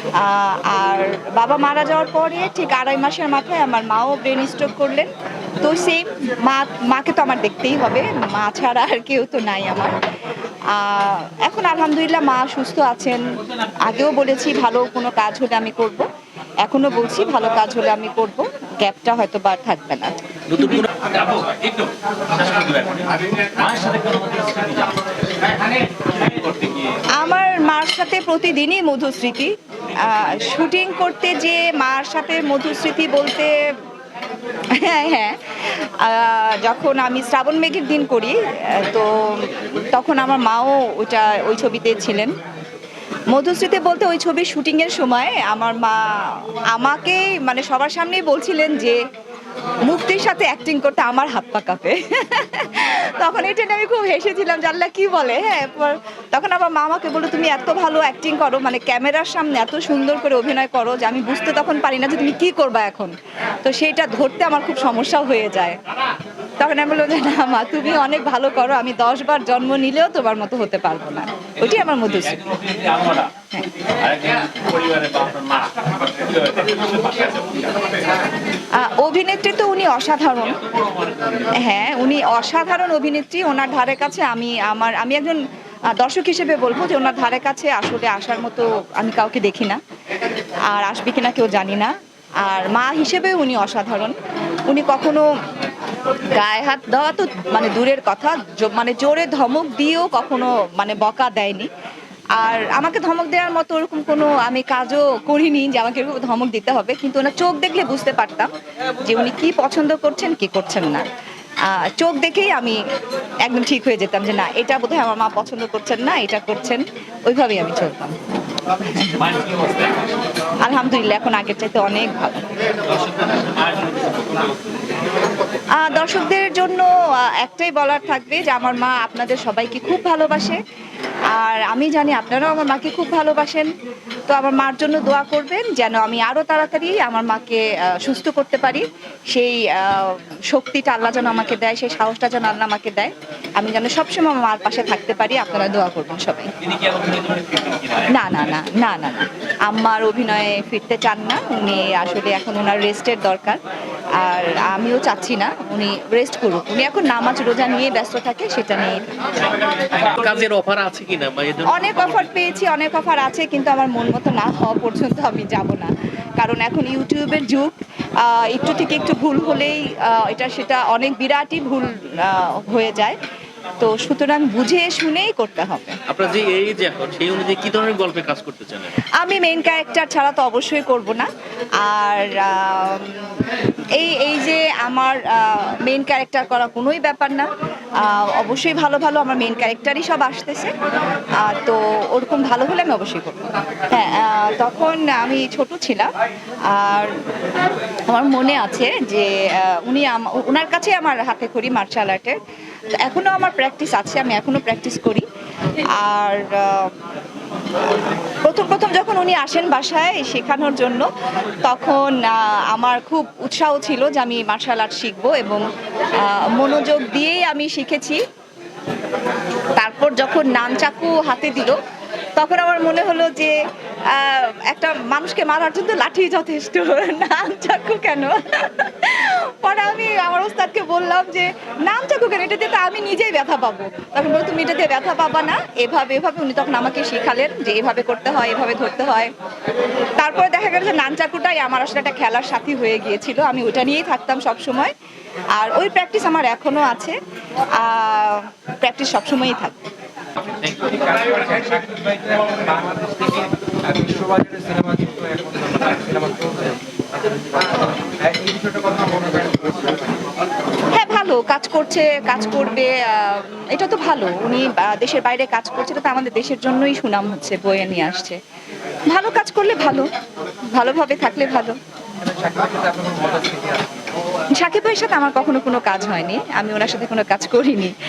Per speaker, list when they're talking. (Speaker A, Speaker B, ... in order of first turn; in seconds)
Speaker A: 0.2-10.0, 10.7-16.1, 16.6-20.9, 27.1-33.6, 34.7-42.3, 43.3-49.0, 49.8-65.8, 66.6-72.4, 78.7-80.6, 81.5-85.4, 85.9-89.8, 90.7-95.3, 96.3-101.7, 102.4-111.1, 111.6-112.8, 113.4-118.2, 118.7-119.3, 120.6-122.5, 125.8-130.6, 131.3-133.7, 134.3-146.6, 148.1-153.6, 154.2-159.5, 161.7-173.2, 173.8-176.0, 179.2-181.3, 181.8-190.7, 191.4-196.1, 196.7-197.1, 198.1-202.4, 203.0-205.3, 205.9-207.0, 207.9-211.1, 211.6-218.2, 219.8-221.8, 222.4-223.6, 224.1-239.3, 240.2-244.9, 245.5-247.2, 247.8-249.8, 260.9-268.4, 269.1-270.1, 270.7-271.8, 274.5-277.9
Speaker B: 20.5-25.0, 26.0-27.1, 71.6-73.3, 73.9-77.9, 80.6-81.5, 119.1-120.0, 122.9-124.8, 146.6-148.2, 159.9-162.3, 176.1-179.0, 250.5-251.3
Speaker C: 251.1-256.8, 258.2-260.0, 272.2-273.9